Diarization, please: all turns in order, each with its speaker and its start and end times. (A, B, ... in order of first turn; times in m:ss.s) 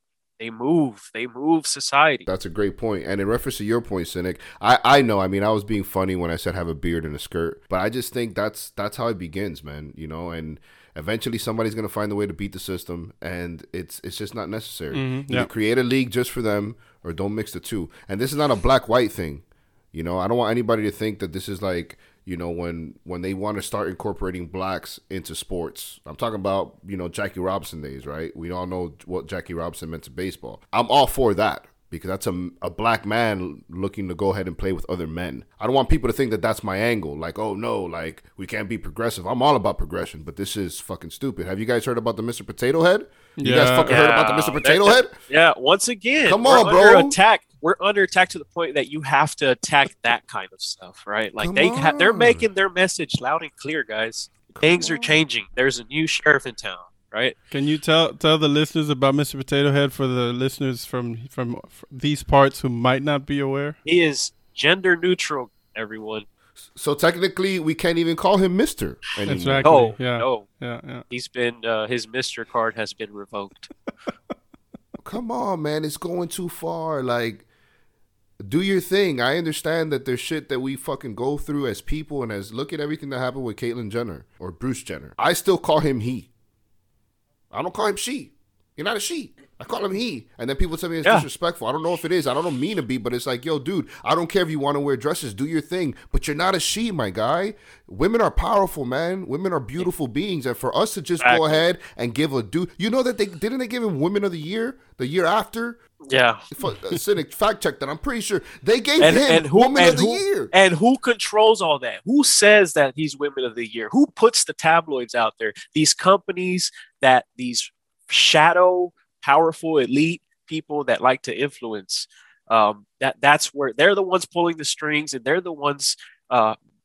0:00.4-0:02.3 A
0:02.3-0:45.1 B
0:14.9-0:15.5 C
0:43.4-0:43.9 C
0:43.8-0:57.3 A
0:46.2-0:47.2 B
0:51.4-0:52.6 B
0:54.5-0:55.2 B
0:57.5-1:03.8 C
1:03.8-1:06.2 A
1:06.7-1:09.7 B
1:09.3-1:11.0 C
1:09.6-1:10.5 A
1:11.1-1:13.7 A
1:15.0-1:17.4 B
1:18.4-1:26.3 B
1:27.5-1:45.8 B
1:41.2-1:41.6 A
1:46.0-1:47.0 A
1:46.5-1:50.5 B
1:49.0-2:06.6 A